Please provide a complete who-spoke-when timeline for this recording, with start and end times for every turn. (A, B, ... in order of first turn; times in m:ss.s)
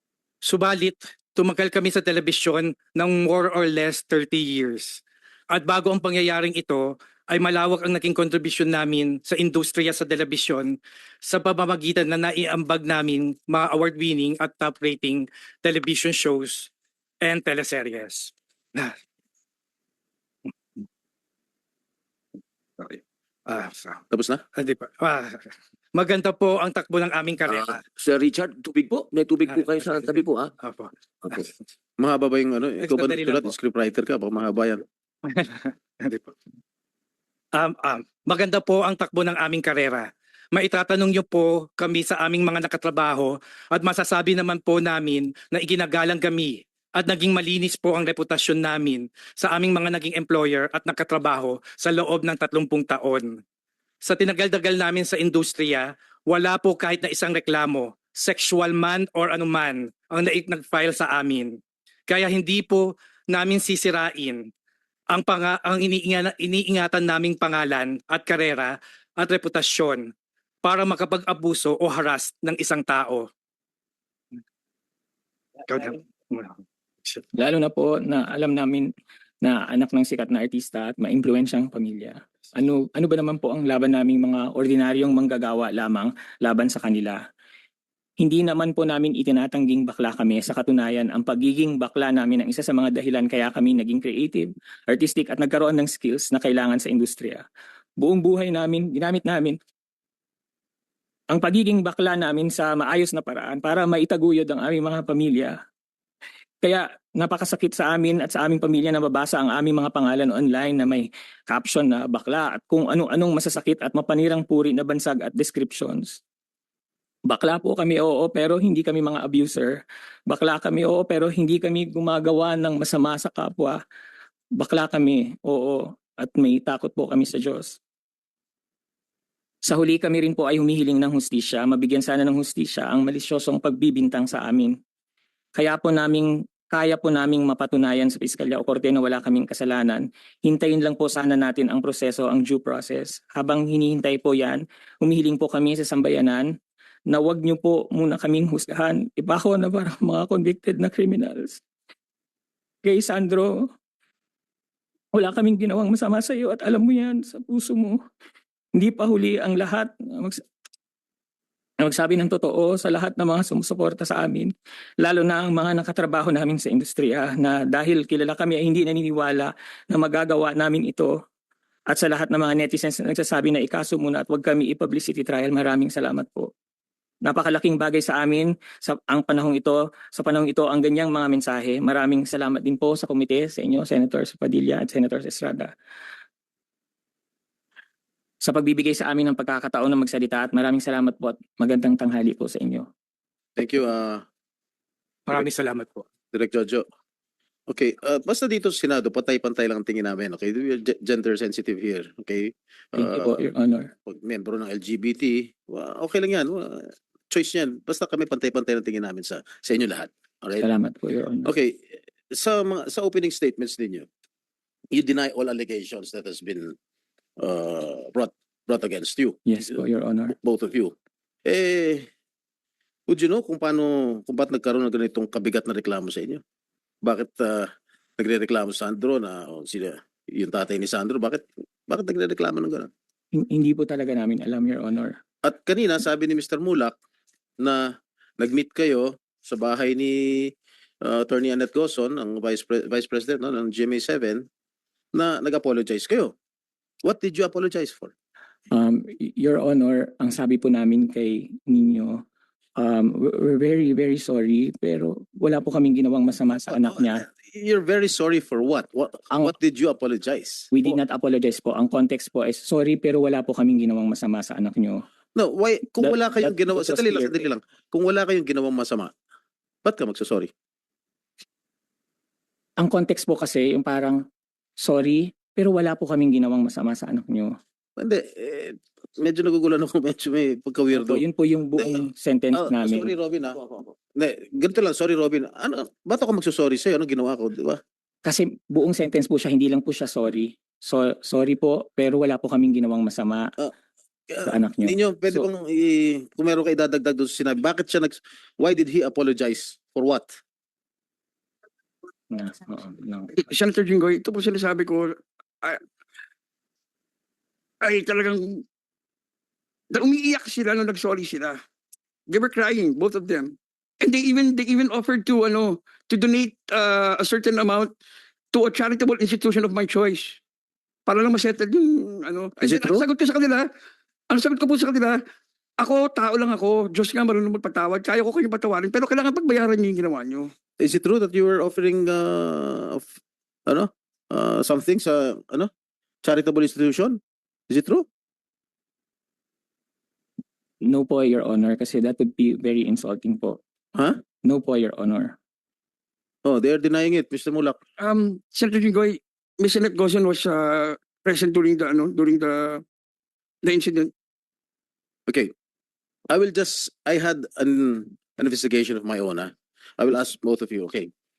0:00.4-0:16.7 A
0:17.2-0:19.0 A
0:22.8-0:24.0 A
0:24.1-0:24.4 B
0:24.5-0:27.8 A
0:27.9-0:30.5 C
0:29.5-0:31.4 A
0:32.0-0:34.8 B
0:32.8-0:33.5 A
0:35.2-0:36.3 A
0:37.5-0:53.4 A
0:54.0-1:04.5 A
1:05.1-1:10.1 A
1:10.6-1:13.2 A
1:15.7-1:17.2 A
1:17.3-1:18.9 D
1:19.4-1:27.2 D
1:28.2-1:37.4 D
1:38.0-1:39.6 D
1:41.3-1:45.6 D
1:46.6-1:56.2 D
1:57.2-2:03.8 D
2:04.5-2:07.8 D
2:09.6-2:14.8 D
2:15.5-2:31.6 D
2:32.8-2:33.7 D
2:35.1-2:38.0 D
2:38.7-2:40.4 D
2:41.8-2:51.2 D
2:51.9-2:56.5 D
2:57.2-3:05.7 D
3:08.4-3:12.9 D
3:13.6-3:14.2 B
3:15.3-3:16.0 A
3:16.3-3:16.8 B
3:17.7-3:23.5 B
3:22.9-3:23.9 D
3:24.1-3:30.7 B
3:30.6-3:31.5 D
3:31.4-3:34.0 B
3:34.9-3:36.7 B
3:37.4-3:39.8 B
3:39.4-3:40.3 D
3:40.3-3:40.9 B
3:41.4-3:42.0 B
3:43.1-3:46.4 B
3:47.0-3:52.9 B
3:53.3-3:55.2 D
3:55.4-3:56.9 B
3:57.6-4:04.4 B
4:05.1-4:06.3 B
4:07.0-4:08.1 B
4:08.7-4:12.2 D
4:12.8-4:17.2 D
4:16.7-4:21.0 B
4:20.7-4:25.0 D
4:25.3-4:29.1 B
4:26.0-4:27.4 D
4:29.8-4:30.5 B
4:32.8-4:34.2 D
4:34.8-4:37.5 D
4:38.0-4:41.2 B
4:40.9-4:43.1 D
4:41.8-4:47.8 B
4:48.2-4:53.5 D
4:54.3-5:00.3 B
4:54.4-4:55.4 D
5:02.3-5:03.3 D
5:03.4-5:05.8 E
5:07.8-5:08.6 E
5:09.9-5:11.6 E
5:12.3-5:17.9 E
5:18.5-5:20.4 E
5:21.0-5:23.7 E
5:22.6-5:23.0 B
5:24.3-5:25.2 E
5:25.8-5:30.5 E
5:30.8-5:33.1 B
5:33.7-5:35.7 B
5:36.2-5:37.2 B
5:37.7-5:38.0 B
5:40.8-5:43.6 D
5:43.9-5:44.2 B
5:44.4-5:45.4 D
5:46.4-5:47.8 B
5:48.0-5:52.8 E
5:53.6-5:54.1 E
5:55.3-5:55.5 B
5:56.3-6:01.1 B